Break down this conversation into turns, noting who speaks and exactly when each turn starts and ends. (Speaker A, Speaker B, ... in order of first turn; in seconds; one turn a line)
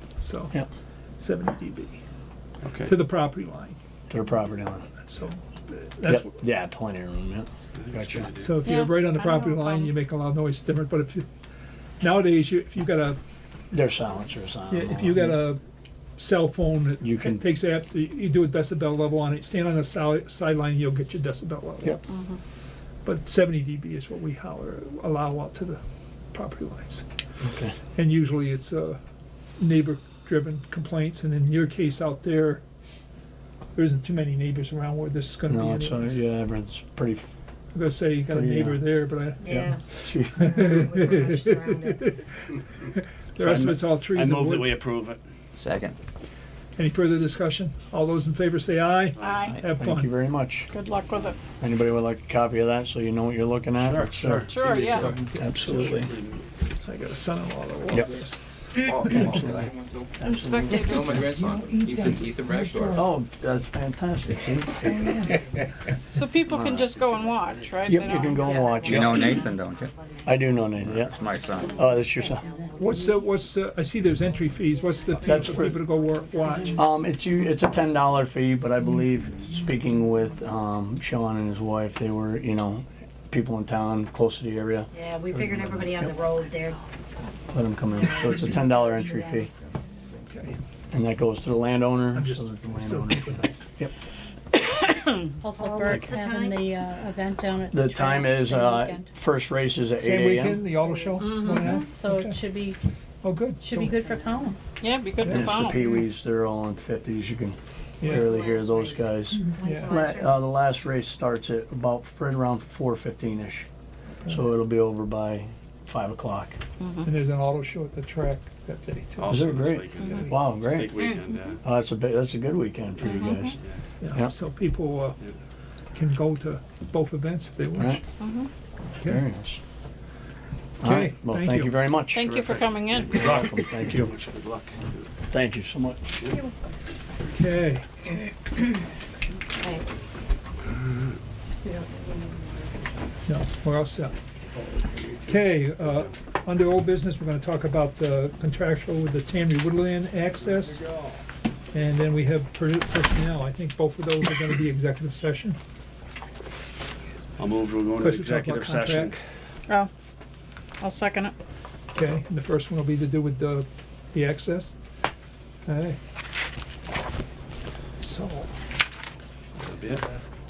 Speaker A: 0.2-0.5
Speaker A: 1.2-2.0
Speaker B: 2.6-2.9
Speaker A: 2.8-3.8
Speaker C: 4.1-4.9
Speaker A: 5.0-6.3
Speaker C: 6.0-8.3
Speaker B: 7.7-8.5
Speaker A: 8.4-11.2
Speaker D: 8.6-9.9
Speaker A: 12.0-13.2
Speaker C: 13.7-15.4
Speaker A: 14.7-15.6
Speaker A: 16.2-22.0
Speaker C: 17.0-17.4
Speaker D: 22.1-22.4
Speaker A: 23.0-25.8
Speaker A: 26.3-27.0
Speaker C: 27.4-27.7
Speaker A: 27.9-29.0
Speaker A: 29.6-32.6
Speaker A: 33.7-36.2
Speaker C: 35.5-37.3
Speaker A: 37.7-42.2
Speaker C: 38.3-38.9
Speaker E: 39.4-42.0
Speaker C: 39.5-40.8
Speaker A: 42.9-44.8
Speaker B: 43.4-45.2
Speaker F: 45.5-46.0
Speaker A: 46.8-50.1
Speaker B: 49.2-49.5
Speaker D: 49.2-49.6
Speaker F: 49.3-49.7
Speaker C: 49.8-50.7
Speaker D: 50.7-51.4
Speaker C: 51.6-56.1
Speaker B: 53.8-56.5
Speaker D: 54.5-55.1
Speaker A: 55.2-56.0
Speaker A: 56.8-58.4
Speaker G: 58.8-60.1
Speaker A: 59.0-59.4
Speaker C: 59.1-61.3
Speaker D: 60.2-61.3
Speaker G: 60.7-63.0
Speaker A: 61.3-63.1
Speaker C: 62.9-65.4
Speaker A: 64.8-65.4
Speaker D: 66.1-68.7
Speaker C: 66.4-66.9
Speaker E: 67.2-67.5
Speaker C: 67.9-69.5
Speaker E: 68.0-73.2
Speaker F: 68.8-69.9
Speaker H: 69.2-69.7
Speaker C: 70.2-71.2
Speaker F: 70.8-71.8
Speaker H: 71.5-73.4
Speaker C: 71.7-72.5
Speaker A: 72.8-76.8
Speaker H: 74.3-76.9
Speaker E: 75.1-75.8
Speaker C: 75.2-75.9
Speaker E: 76.4-76.8
Speaker C: 76.7-86.2
Speaker E: 84.9-86.9
Speaker C: 87.5-89.5
Speaker E: 87.9-89.5
Speaker A: 90.3-90.6
Speaker C: 90.9-93.9
Speaker A: 92.1-93.6
Speaker E: 95.4-96.7
Speaker H: 95.4-99.1
Speaker C: 97.7-100.7
Speaker A: 100.0-102.5
Speaker H: 100.8-102.8
Speaker E: 101.0-101.4
Speaker A: 103.2-104.0
Speaker H: 103.6-104.6
Speaker E: 103.8-104.5
Speaker D: 104.8-105.8
Speaker A: 105.2-106.0
Speaker C: 105.3-113.7
Speaker A: 108.0-108.3
Speaker E: 108.0-110.5
Speaker A: 109.3-109.9
Speaker C: 114.3-116.6
Speaker D: 116.8-117.1
Speaker A: 117.0-120.3
Speaker B: 119.2-121.6
Speaker C: 119.2-121.0
Speaker C: 121.6-123.6
Speaker B: 123.0-123.8
Speaker D: 123.1-123.5
Speaker A: 124.0-125.2
Speaker A: 125.9-128.0
Speaker D: 128.2-128.5
Speaker C: 129.0-129.6
Speaker C: 130.8-132.3
Speaker A: 130.8-131.7
Speaker D: 132.1-133.2
Speaker B: 132.2-135.1
Speaker C: 133.1-134.1
Speaker C: 135.3-136.2
Speaker B: 136.1-136.4
Speaker A: 137.3-137.8
Speaker E: 139.6-140.0
Speaker E: 141.6-142.4
Speaker A: 143.2-144.1
Speaker A: 145.2-150.9
Speaker B: 145.8-146.1
Speaker A: 151.7-155.6
Speaker B: 157.4-159.2
Speaker A: 158.0-159.2
Speaker D: 160.8-161.3
Speaker A: 161.9-164.8
Speaker A: 165.7-166.0
Speaker A: 168.0-168.5
Speaker B: 169.6-170.0